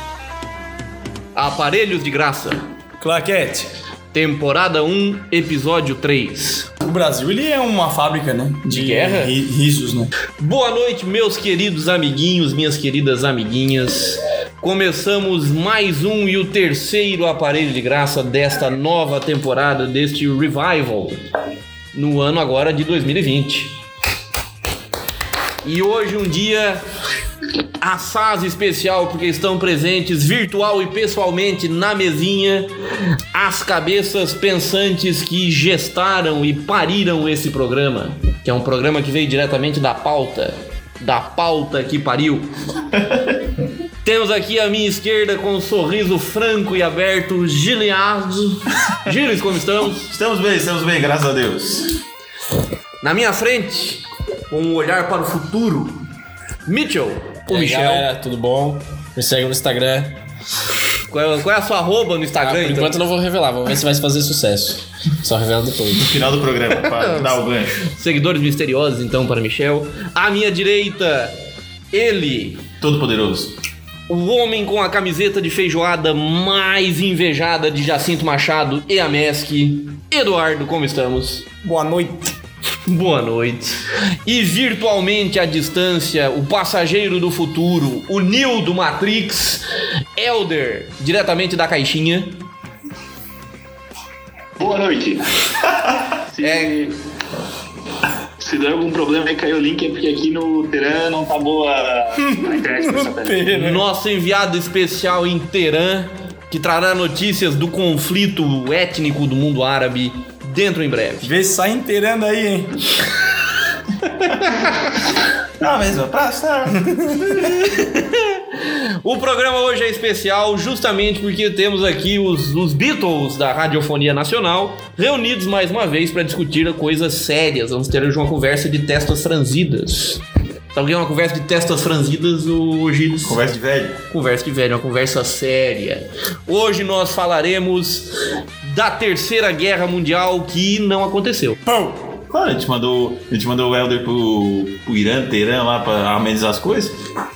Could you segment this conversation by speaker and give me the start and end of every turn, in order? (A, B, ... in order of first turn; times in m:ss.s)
0:01.3-0:02.6 A
0:03.0-0:03.7 B
0:04.1-0:06.7 A
0:06.8-0:10.1 B
0:08.7-0:09.4 A
0:10.4-0:21.2 A
0:21.9-0:23.8 A
0:25.6-0:26.8 A
0:27.8-0:42.5 A
0:44.0-0:50.1 A
0:50.0-0:52.0 C
0:53.0-0:56.0 A
0:56.7-0:58.1 A
0:57.5-1:00.2 D
1:01.1-1:03.0 A
1:02.4-1:06.2 D
1:05.9-1:07.8 C
1:06.9-1:11.4 A
1:11.9-1:12.7 A
1:12.8-1:13.5 C
1:14.1-1:21.4 A
1:21.6-1:22.3 B
1:22.8-1:29.6 A
1:30.1-1:32.4 A
1:34.6-1:35.2 E
1:36.3-1:36.9 E
1:36.4-1:36.8 A
1:38.4-1:43.4 E
1:42.2-1:43.8 B
1:43.5-1:51.3 A
1:51.2-1:52.8 B
1:54.2-1:54.9 C
1:55.6-1:57.5 C
1:56.8-1:57.3 B
1:57.5-2:13.4 A
2:13.2-2:14.0 C
2:14.1-2:21.6 A
2:21.7-2:22.0 B
2:22.3-2:27.0 C